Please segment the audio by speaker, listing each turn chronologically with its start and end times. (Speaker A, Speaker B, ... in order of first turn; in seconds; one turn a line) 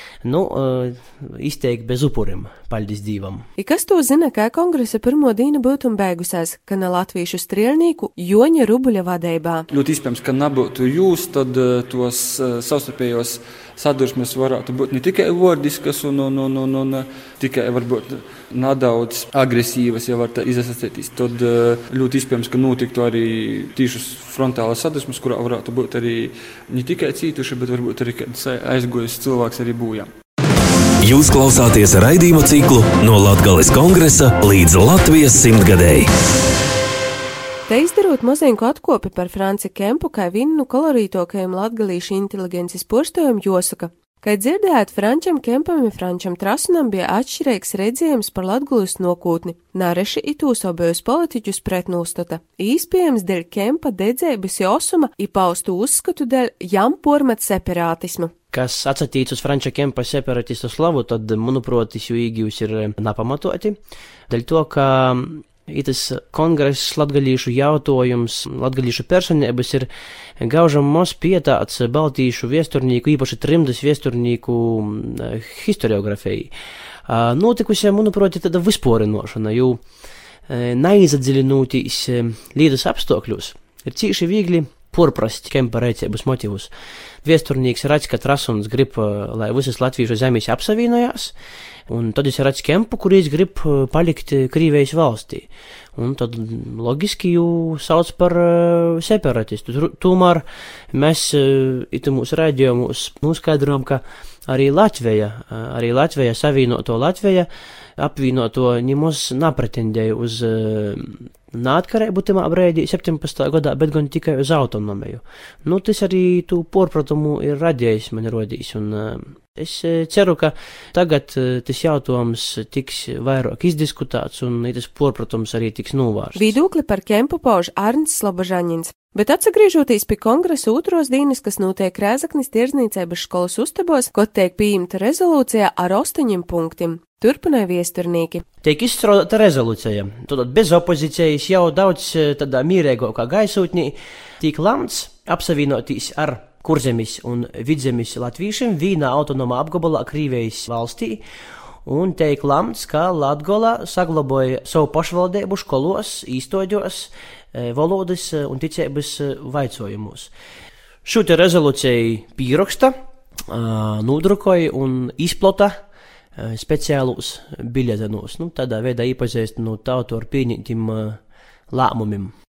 Speaker A: 0.2-3.5
Speaker B: 3.6-9.7
Speaker C: 9.7-30.1
Speaker D: 31.0-36.1
Speaker B: 37.7-58.3
Speaker A: 58.5-63.8
Speaker A: 64.3-69.9
Speaker A: 70.4-76.5
Speaker A: 77.1-79.8
Speaker A: 80.5-86.7
Speaker A: 87.2-91.3
Speaker A: 91.9-126.5
Speaker B: 126.3-138.4
Speaker A: 138.6-151.2
Speaker A: 151.8-160.3
Speaker A: 161.0-162.9
Speaker A: 163.5-165.8
Speaker A: 166.4-171.2
Speaker A: 171.7-172.3